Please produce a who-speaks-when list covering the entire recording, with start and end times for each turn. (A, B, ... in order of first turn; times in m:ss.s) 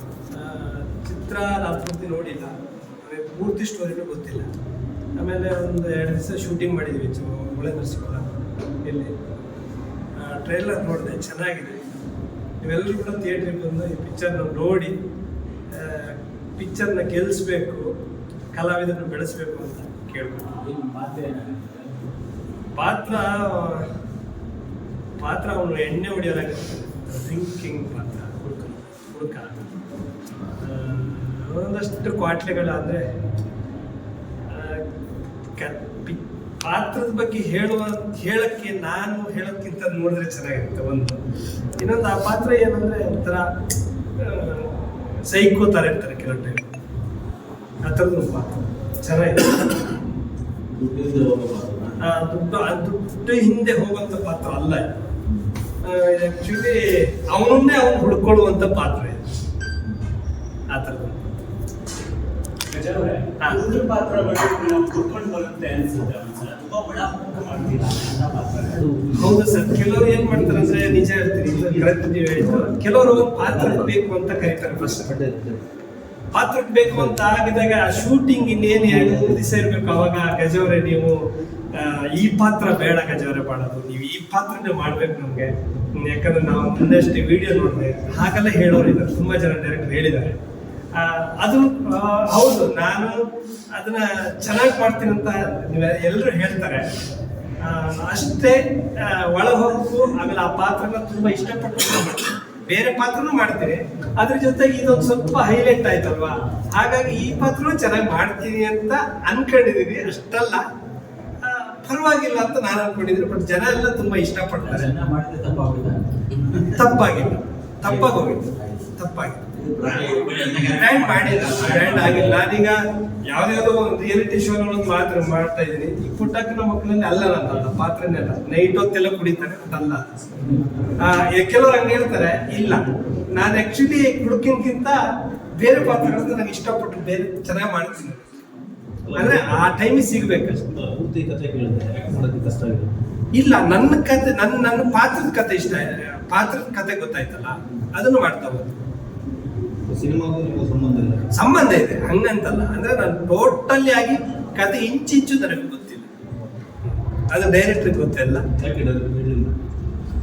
0:00.3-0:04.5 A
0:05.2-0:09.1 A
0:10.2-0:11.8 A
0:12.6-0:14.9 A
0:15.7-0:17.9 A
0:18.5-0:20.6 A
0:20.6-0:22.0 B
0:22.8-0:23.9 A
0:25.2-0:29.7 A
0:30.6-0:33.0 A
0:34.5-0:34.8 A
0:35.6-0:41.2 A
0:41.8-0:43.4 A
0:44.2-0:46.6 A
0:47.8-0:49.6 A
0:50.7-0:52.0 C
0:52.0-0:54.8 A
0:55.8-0:59.3 A
1:00.7-1:01.2 A
1:02.7-1:08.9 B
1:08.7-1:14.0 C
1:09.2-1:15.2 A
1:14.8-1:15.6 C
1:16.3-1:21.2 A
1:16.9-1:17.2 C
1:18.8-1:19.5 C
1:21.7-1:30.4 A
1:31.0-1:33.2 A
1:33.7-1:36.8 A
1:37.6-1:50.6 A
1:51.4-1:54.9 A
1:54.6-1:56.8 B
1:56.7-2:10.0 A
1:57.9-1:58.8 C
1:59.5-2:02.4 B
2:11.0-2:15.0 A
2:15.6-2:18.3 A
2:19.0-2:19.7 C
2:19.1-2:20.7 A
2:20.6-2:22.9 C
2:23.4-2:28.7 A
2:29.9-2:31.3 C
2:31.3-2:36.1 A
2:37.3-2:38.4 A
2:38.6-2:39.6 C